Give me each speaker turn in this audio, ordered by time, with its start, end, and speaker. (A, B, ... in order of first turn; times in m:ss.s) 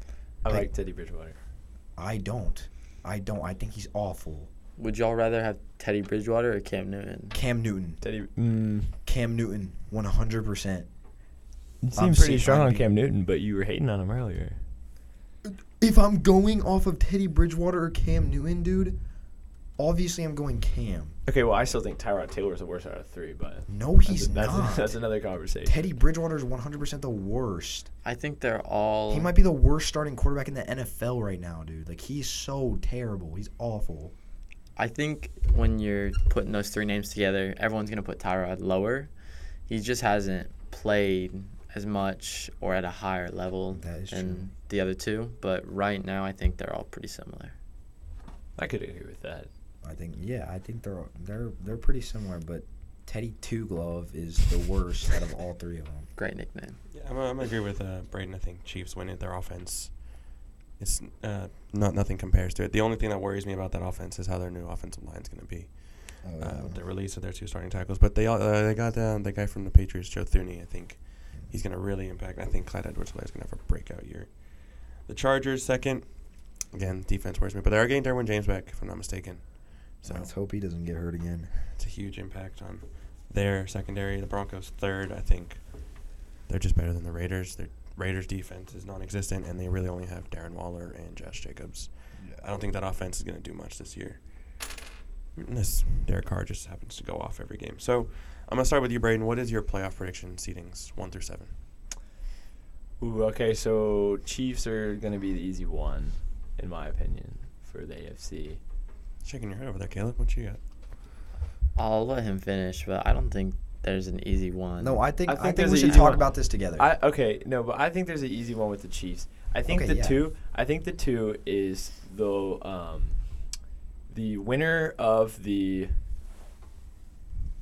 0:00.4-0:00.7 A
0:00.4-0:01.4 B
0:02.0-0:04.5 A
0:04.8-0:07.4 C
0:07.3-0:08.0 A
0:08.0-0:08.9 B
0:09.0-0:10.9 A
0:11.8-0:14.6 B
0:11.9-0:12.9 A
0:15.4-0:19.0 A
0:19.8-0:21.2 A
0:21.2-0:25.8 B
0:23.7-0:25.0 A
0:25.6-0:27.9 A
0:28.0-0:29.3 C
0:29.1-0:34.1 A
0:34.8-0:39.1 C
0:39.7-0:47.5 C
0:43.7-0:44.5 A
0:48.6-0:49.5 B
0:49.8-0:56.1 A
0:56.2-0:56.8 C
0:56.9-1:00.2 D
1:00.8-1:20.3 D
1:06.2-1:06.8 A
1:20.0-1:21.6 A
1:21.7-1:34.8 D
1:32.2-1:32.4 A
1:35.4-1:41.5 D
1:43.0-1:48.6 B
1:49.2-1:50.6 D
1:51.7-1:55.1 C
1:54.8-1:56.9 A
1:55.3-2:03.2 B
1:55.7-1:56.2 C
1:59.6-2:00.2 A
2:04.1-2:06.0 B